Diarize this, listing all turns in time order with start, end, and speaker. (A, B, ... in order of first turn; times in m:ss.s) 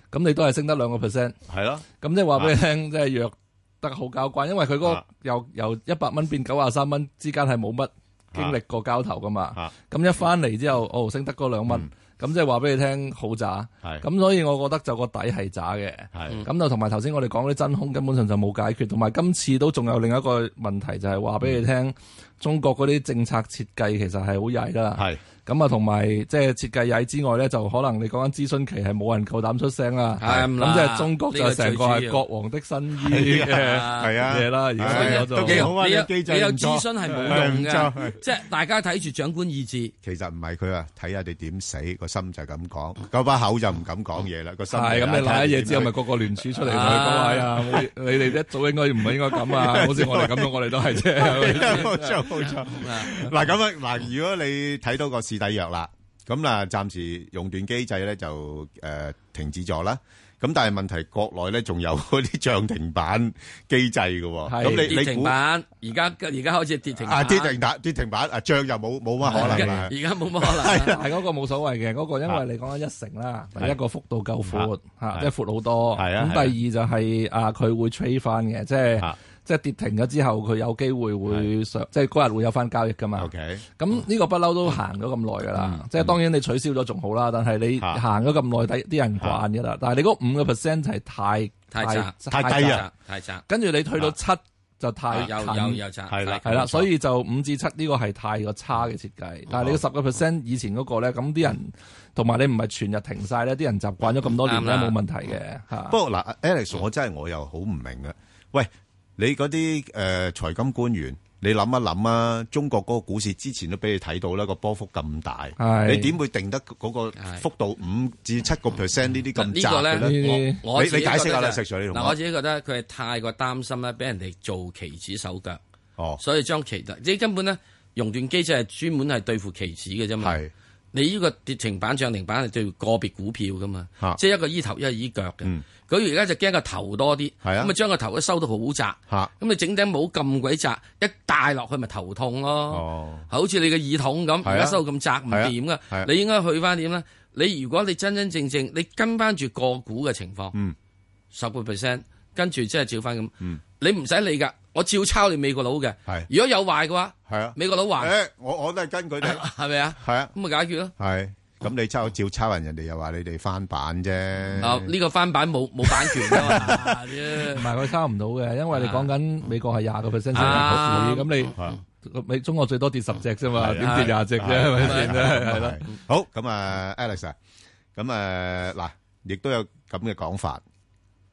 0:00.1-0:35.7 A
0:01.5-0:02.6 B
0:08.3-0:08.6 B
0:16.1-0:16.4 B
0:25.0-0:25.2 B
0:30.2-0:32.2 C
0:33.0-0:38.2 B
0:33.4-0:34.2 C
0:34.8-0:39.9 C
0:40.0-0:46.0 B
0:44.7-0:52.0 A
0:46.6-0:47.5 C
0:46.8-0:47.0 B
0:49.3-1:05.4 B
0:51.4-0:53.2 C
1:04.5-1:04.9 A
1:04.6-1:07.5 C
1:07.0-1:11.0 B
1:09.2-1:11.0 C
1:09.4-1:09.6 A
1:10.9-1:32.8 A
1:14.5-1:15.3 B
1:15.9-1:16.6 B
1:23.2-1:23.6 B
1:25.5-1:26.2 B
1:31.7-1:33.4 C
1:32.3-1:32.8 B
1:33.5-1:35.8 A
1:35.1-1:36.6 C
1:36.1-1:36.9 B
1:36.4-1:46.0 A
1:44.4-1:45.0 C
1:45.9-2:02.2 B
1:55.6-1:56.1 A
1:57.2-1:57.4 C
1:59.4-2:05.6 C
2:00.0-2:00.6 A
2:06.2-2:10.4 C
2:10.2-2:10.5 B
2:10.9-2:30.6 C
2:17.4-2:17.7 B
2:22.7-2:23.3 B
2:24.4-2:26.1 B
2:31.3-2:38.1 C
2:37.3-2:39.4 B
2:39.2-2:40.9 C
2:40.0-2:40.3 B
2:41.0-2:44.9 B
2:44.6-2:47.7 C
2:45.9-2:46.9 B
2:47.6-2:55.8 A
2:48.7-2:49.1 C
2:50.3-2:51.5 C
2:50.4-2:50.8 B
2:53.6-2:57.4 B
2:53.8-2:55.2 C
2:58.0-3:00.6 B